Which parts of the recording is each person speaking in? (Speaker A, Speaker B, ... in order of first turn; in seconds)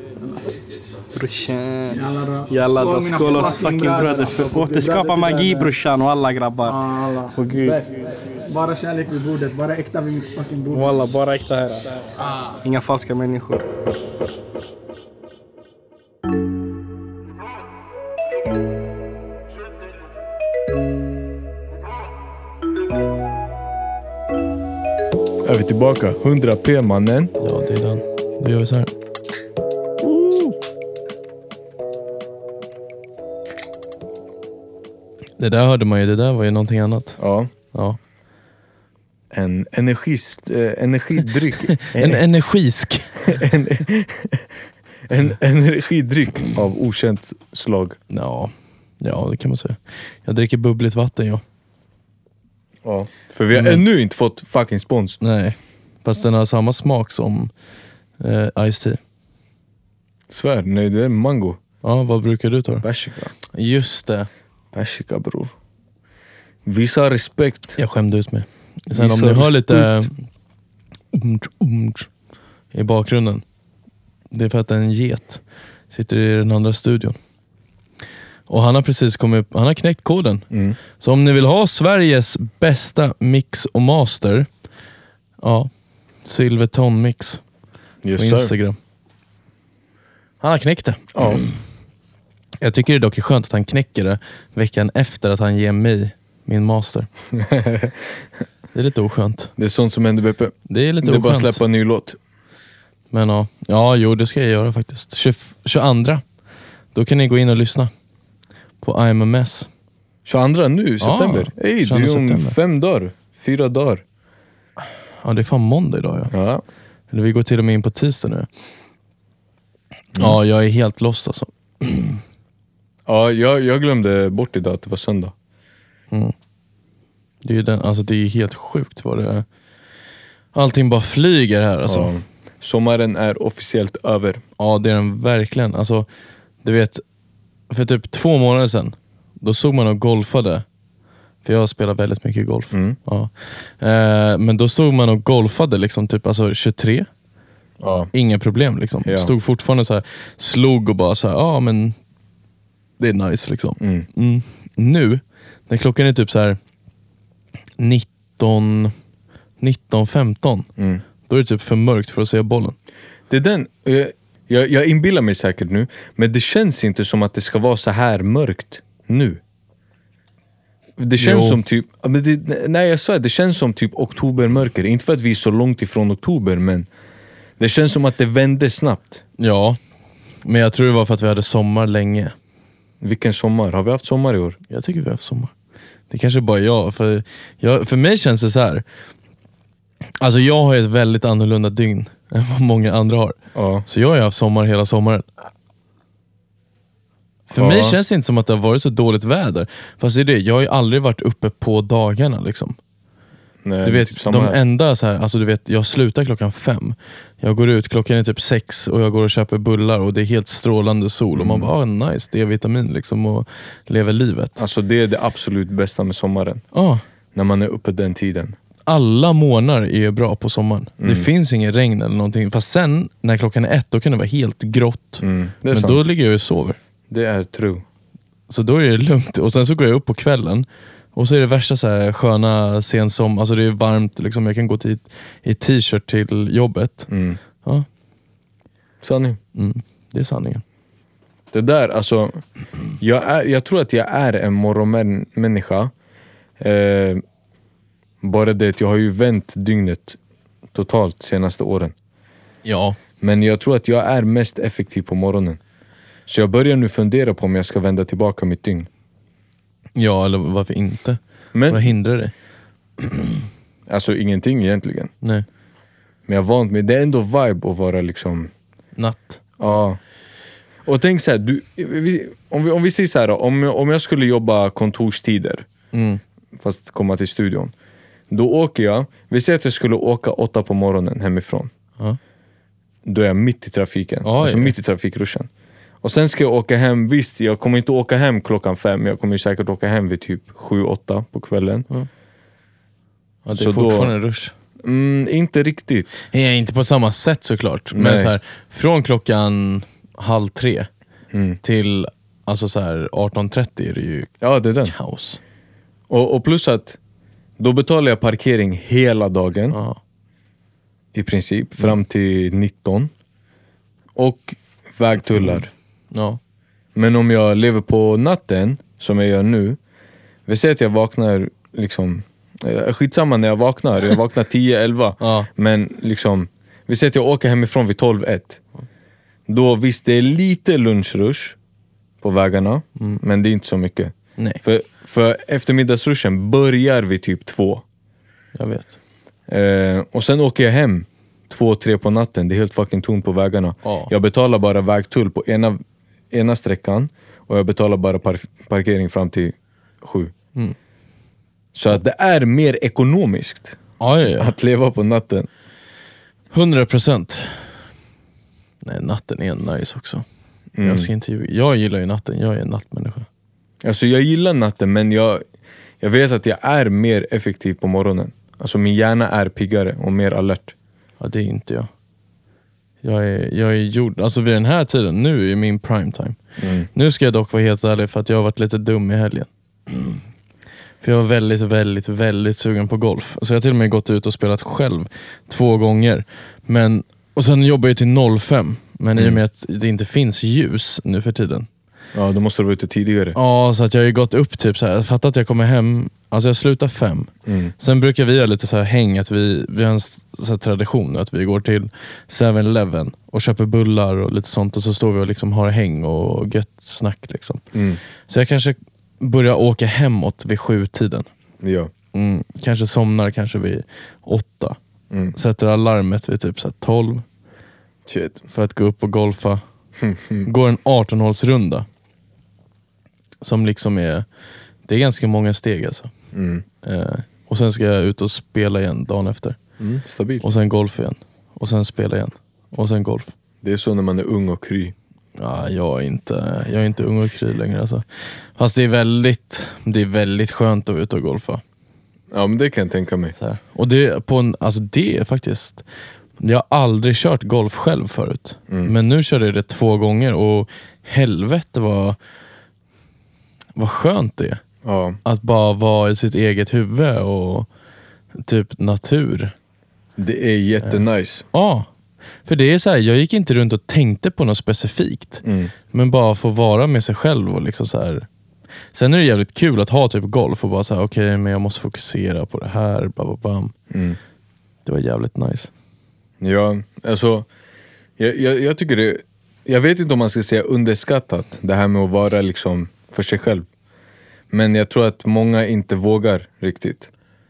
Speaker A: 1.1-7.9, 10.7-13.6
Speaker B: 1.9-5.7, 6.7-11.0
Speaker C: 25.4-27.3, 37.2-37.5, 39.3-42.2, 43.2-44.5, 45.1-48.0, 52.8-55.2, 60.3-61.6, 62.8-63.3, 64.7-65.5, 66.6-67.8, 68.9-70.1, 80.5-80.8, 88.0-88.5, 91.1-91.4, 97.3-98.0, 99.6-102.2, 110.2-114.0, 116.3-116.6, 123.0-125.3, 131.9-134.4, 142.7-143.0, 147.8-148.1, 149.0-149.3, 153.8-154.1, 163.3-169.4, 171.0-176.9, 177.6-179.2, 183.0-184.6, 193.5-193.8, 197.5-198.0, 203.6-204.6, 211.3-211.7, 214.6-216.6, 217.3-218.5, 221.0-221.3, 225.2-226.0, 227.1-227.8, 237.1-237.4, 239.0-239.4, 241.5-242.4, 243.0-245.9, 246.6-247.2, 248.2-250.2, 250.7-251.9, 253.2-255.6, 256.3-258.9, 261.5-261.9, 263.9-265.1, 266.3-268.5, 269.6-270.0, 270.9-275.6, 276.6-277.7, 278.3-281.7, 283.0-285.5, 286.0-291.9, 293.5-294.1, 294.8-296.2, 297.9-298.3, 301.3-301.6, 304.4-304.9, 306.1-307.0, 307.6-309.8, 311.1-313.1, 314.1-315.7, 316.9-319.8, 320.5-328.6, 329.5-331.6, 332.2-337.8, 339.5-350.3, 351.7-353.8, 354.4-355.5, 360.7-361.1, 363.8-365.4, 366.0-370.7, 376.6-376.9, 392.1-393.4, 397.4-397.7, 407.7-408.0, 411.6-411.9, 418.1-418.4, 420.0-420.5, 426.3-426.6, 429.8-430.5, 433.6-434.9, 442.3-443.3, 454.8-455.2, 460.2-461.4, 465.4-465.7, 473.9-474.2, 476.4-477.5, 478.2-483.6, 484.5-487.1
Speaker D: 27.4-28.9, 35.4-37.2, 37.7-38.0, 41.7-43.3, 48.1-51.4, 53.5-53.8, 55.2-57.5, 58.2-59.0, 61.8-62.9, 63.5-64.3, 67.8-70.1, 71.1-72.1, 72.7-73.4, 74.3-77.2, 78.5-80.5, 81.0-84.5, 85.4-85.7, 86.2-87.4, 88.2-88.8, 90.4-91.6, 92.6-97.1, 98.7-99.5, 100.7-101.6, 103.1-106.2, 106.9-107.9, 108.8-109.7, 111.0-112.5, 115.2-116.3, 117.1-118.5, 120.2-122.2, 127.4-129.4, 130.5-132.1, 134.6-136.1, 136.6-137.0, 137.7-140.6, 141.4-147.1, 148.1-151.9, 153.0-156.6, 157.8-158.9, 159.6-160.7, 161.2-162.8, 171.2-171.6, 179.4-179.8, 180.4-182.3, 184.7-185.5, 186.1-188.8, 190.2-195.2, 197.5-202.8, 203.8-214.6, 216.7-217.0, 218.9-226.8, 228.5-237.1, 239.5-240.6, 252.6-253.0, 259.9-262.3, 263.0-263.4, 269.0-269.4, 275.9-276.2, 284.2-284.7, 293.4-294.5, 296.3-300.9, 301.6-304.3, 304.8-305.4, 309.7-310.0, 316.1-316.4, 325.2-325.5, 338.5-338.9, 343.8-344.1, 354.0-354.5, 356.5-357.7, 358.8-360.2, 360.8-363.3, 371.2-371.9, 373.0-376.4, 376.9-380.2, 381.0-391.7, 393.3-407.6, 408.3-411.3, 412.1-414.8, 415.3-417.2, 418.5-419.6, 420.4-421.9, 423.4-424.2, 424.9-426.1, 426.8-429.6, 430.4-433.3, 435.4-438.0, 438.6-441.6, 443.4-445.8, 446.4-452.2, 453.8-454.6, 455.2-457.7, 458.4-459.5, 461.5-461.9, 462.4-468.2, 468.9-473.7, 474.8-475.7